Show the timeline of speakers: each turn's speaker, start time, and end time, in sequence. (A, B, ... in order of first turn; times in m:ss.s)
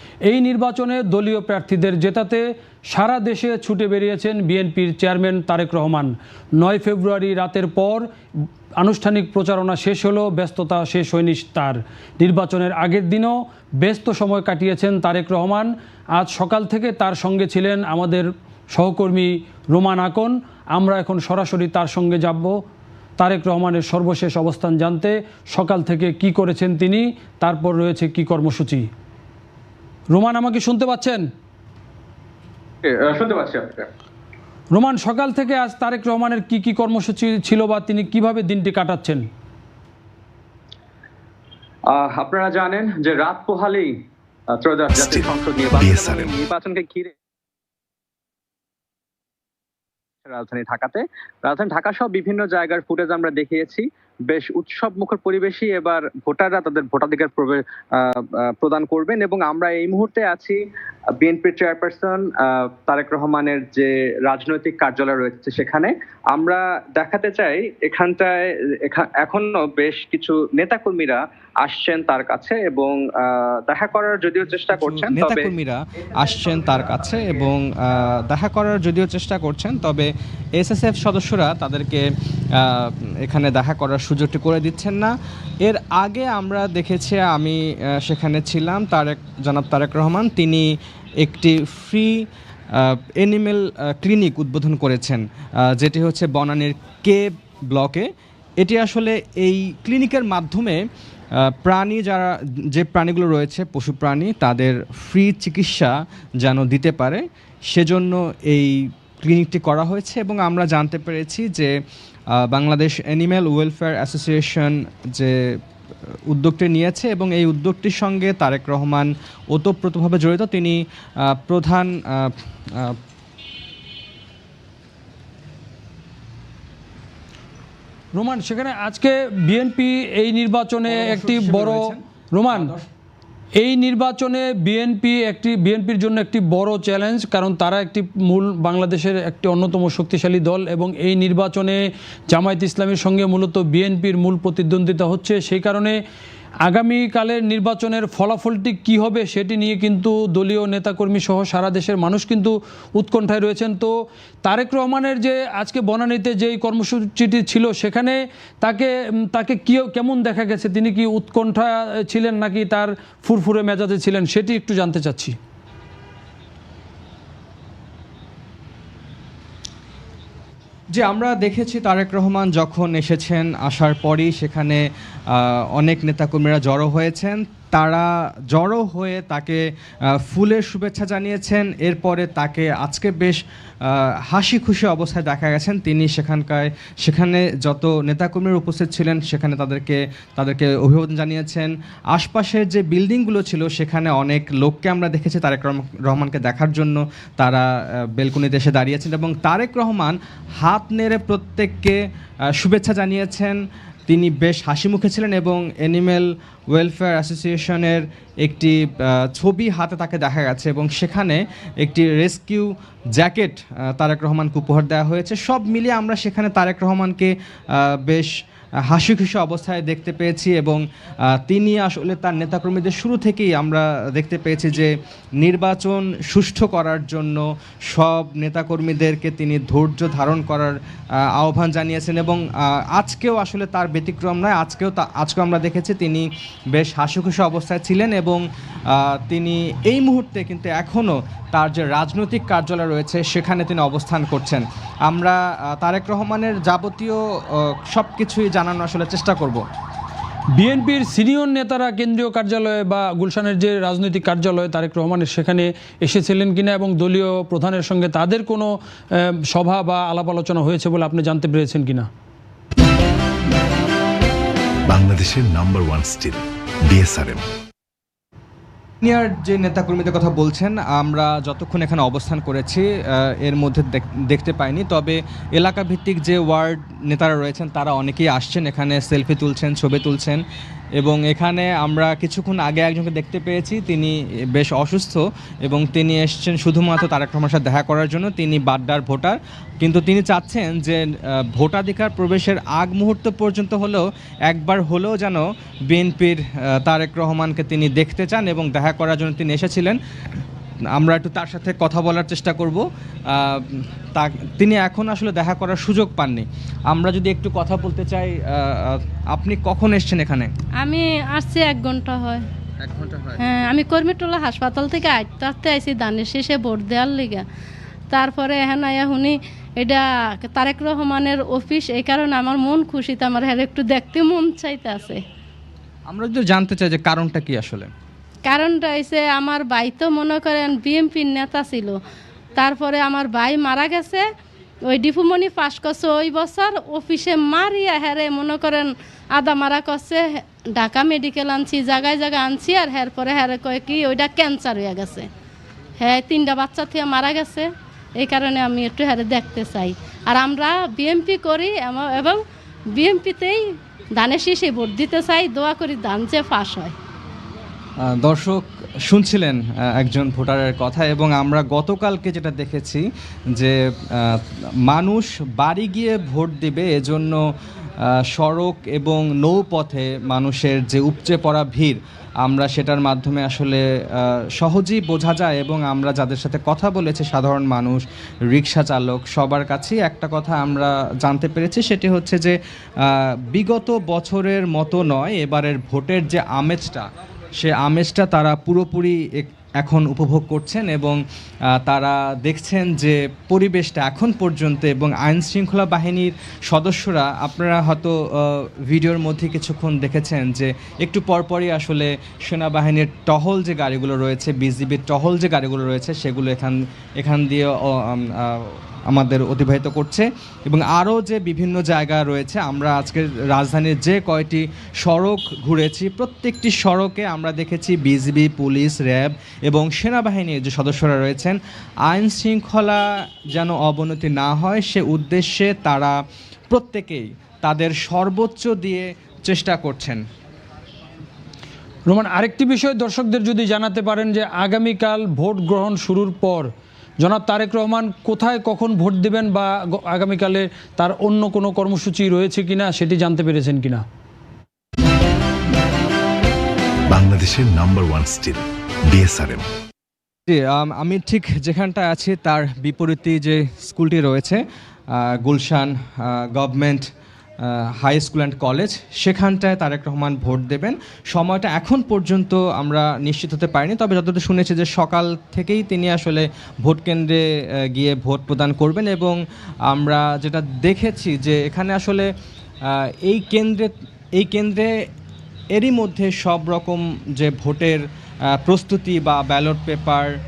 0:00.3-0:08.0 A
0:08.8-0:22.5 A
0:23.2-0:28.9 A
0:30.1-0:31.2 A
0:32.9-0:33.8 B
0:34.7-0:39.2 A
0:41.9-0:43.9 B
0:44.6-0:47.1 B
0:45.0-0:46.3 C
0:45.6-0:46.6 D
0:50.3-0:50.5 D
0:50.6-0:57.6 B
0:54.3-0:55.2 D
0:56.1-1:00.5 D
0:58.8-0:59.4 B
1:00.2-1:00.6 B
1:01.2-1:02.2 B
1:01.3-1:02.1 D
1:02.9-1:04.4 D
1:04.3-1:15.4 B
1:14.7-1:22.0 D
1:22.6-1:30.7 D
1:31.2-1:32.2 D
1:32.8-1:38.1 D
1:38.6-1:40.8 D
1:41.4-1:51.7 D
1:52.4-1:55.3 D
1:56.3-2:03.0 D
2:08.1-2:12.7 A
2:10.9-2:12.9 D
2:13.6-2:26.0 A
2:26.6-2:45.4 A
2:50.9-2:59.6 D
3:00.2-3:22.0 D
3:22.6-3:38.3 D
3:38.9-3:40.8 D
3:41.3-3:50.8 D
3:51.3-4:07.2 D
4:07.9-4:09.6 D
4:10.6-4:18.7 A
4:19.5-4:22.1 A
4:24.9-4:27.5 C
4:29.0-4:40.4 D
4:41.0-5:00.0 D
5:01.0-5:10.5 D
5:10.8-5:12.4 E
5:12.9-5:13.2 D
5:13.4-5:17.4 E
5:18.1-5:25.2 E
5:26.1-5:27.9 D
5:28.5-5:32.0 E
5:32.6-5:34.2 E
5:34.9-5:45.3 E
5:46.0-5:52.4 E
5:52.9-5:53.6 E
5:54.2-5:56.9 E
5:58.0-6:03.0 D
6:03.6-6:07.4 D
6:08.0-6:27.1 D
6:27.6-6:31.2 D
6:31.8-7:01.6 D
7:02.1-7:06.2 D
7:06.7-7:10.2 D
7:12.1-7:16.7 A
7:17.2-7:24.0 A
7:27.1-7:29.7 C
7:30.5-7:37.1 D
7:37.6-7:49.4 D
7:49.9-7:52.3 D
7:52.9-7:54.9 D
7:55.7-7:58.0 D
7:58.6-8:00.3 D